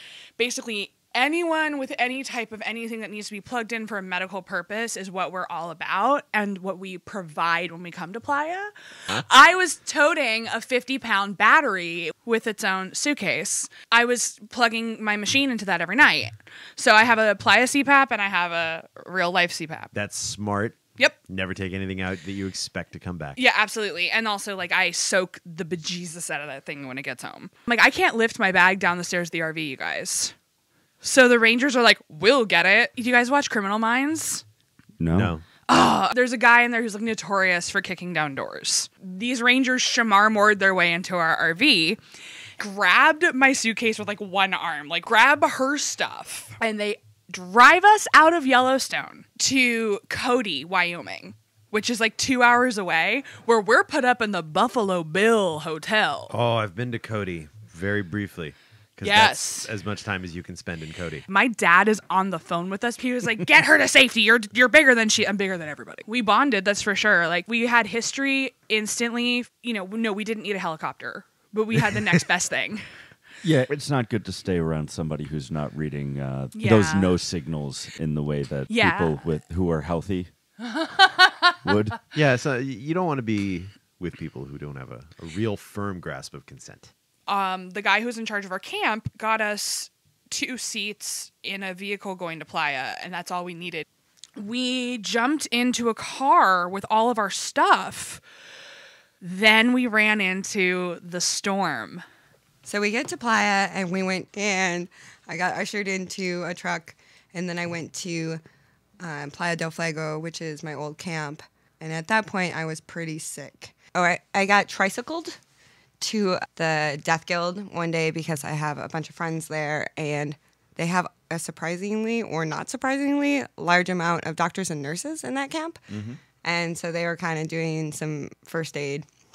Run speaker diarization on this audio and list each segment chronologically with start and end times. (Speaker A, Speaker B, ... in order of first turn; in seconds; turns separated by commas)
Speaker A: 0.4-19.9, Speaker B: 19.9-23.4, Speaker A: 23.4-30.3, Speaker A: 31.0-34.4, Speaker C: 35.0-35.3, Speaker B: 35.1-35.4, Speaker A: 35.7-42.0, Speaker A: 42.6-56.3, Speaker B: 56.3-61.2, Speaker A: 59.0-59.7, Speaker A: 61.3-73.0, Speaker C: 73.4-80.3, Speaker A: 76.5-77.2, Speaker A: 78.7-79.2, Speaker A: 80.6-81.7, Speaker C: 81.6-82.0, Speaker B: 82.1-86.9, Speaker A: 87.3-93.8, Speaker A: 94.4-98.2, Speaker A: 99.2-102.0, Speaker D: 102.7-108.4, Speaker D: 109.0-115.4, Speaker D: 116.0-125.8, Speaker C: 125.9-126.2, Speaker D: 126.4-129.1